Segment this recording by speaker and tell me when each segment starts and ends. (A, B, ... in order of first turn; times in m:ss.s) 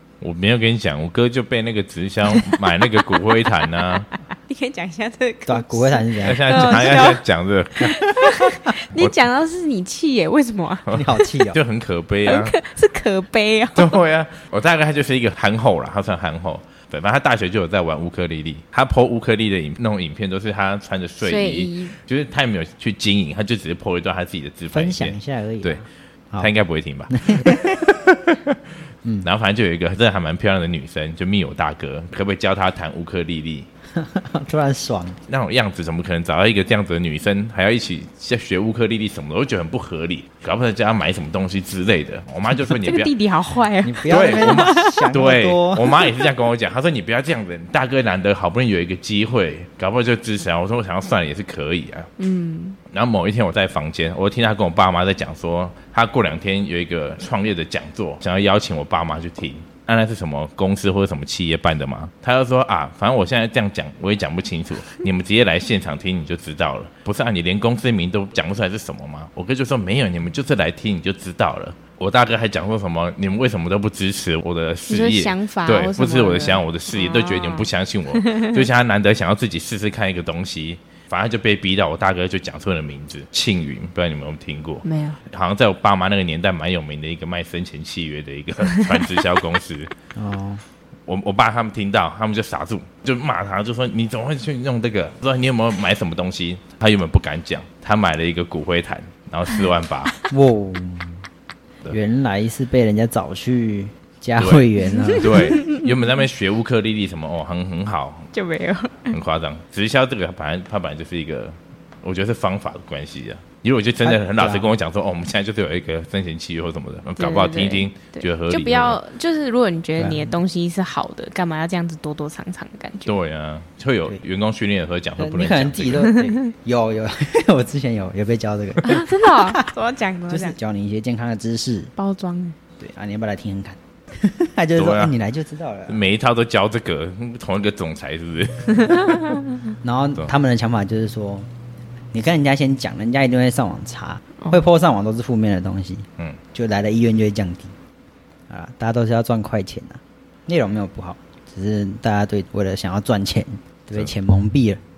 0:00.2-0:04.1 A
0:04.3-0:07.2 B
0:05.5-0:06.9 C
0:06.2-0:08.2 A
0:07.8-0:11.0 B
0:10.9-0:11.6 C
0:10.9-0:12.6 A
0:12.2-0:14.0 B
0:13.8-0:25.8 A
0:21.2-0:22.0 B
0:24.7-0:26.5 C
0:26.4-0:28.2 A
0:27.1-0:27.8 C
0:29.2-0:33.7 A
0:34.0-0:35.2 C
0:35.3-0:43.1 A
0:42.7-0:45.0 B
0:43.8-0:46.0 C
0:44.0-0:52.1 A
0:52.2-0:52.8 B
0:52.9-1:29.9 A
1:14.9-1:18.6 B
1:24.8-1:25.2 B
1:30.2-1:30.6 C
1:31.1-1:40.1 A
1:40.3-1:41.2 C
1:41.9-1:45.4 C
1:44.4-1:48.3 A
1:45.2-1:45.8 B
1:48.3-1:49.2 B
1:49.1-1:59.0 A
1:54.0-1:54.7 C
1:57.2-2:03.1 B
2:00.0-2:00.4 C
2:03.1-2:06.2 A
2:05.2-2:09.6 C
2:08.8-2:10.6 B
2:10.3-2:11.9 C
2:12.0-2:12.6 B
2:12.8-2:16.0 C
2:14.8-2:15.1 A
2:15.9-2:19.2 A
2:19.8-2:21.5 C
2:22.1-2:27.7 C
2:24.4-2:24.7 B
2:28.5-2:34.8 C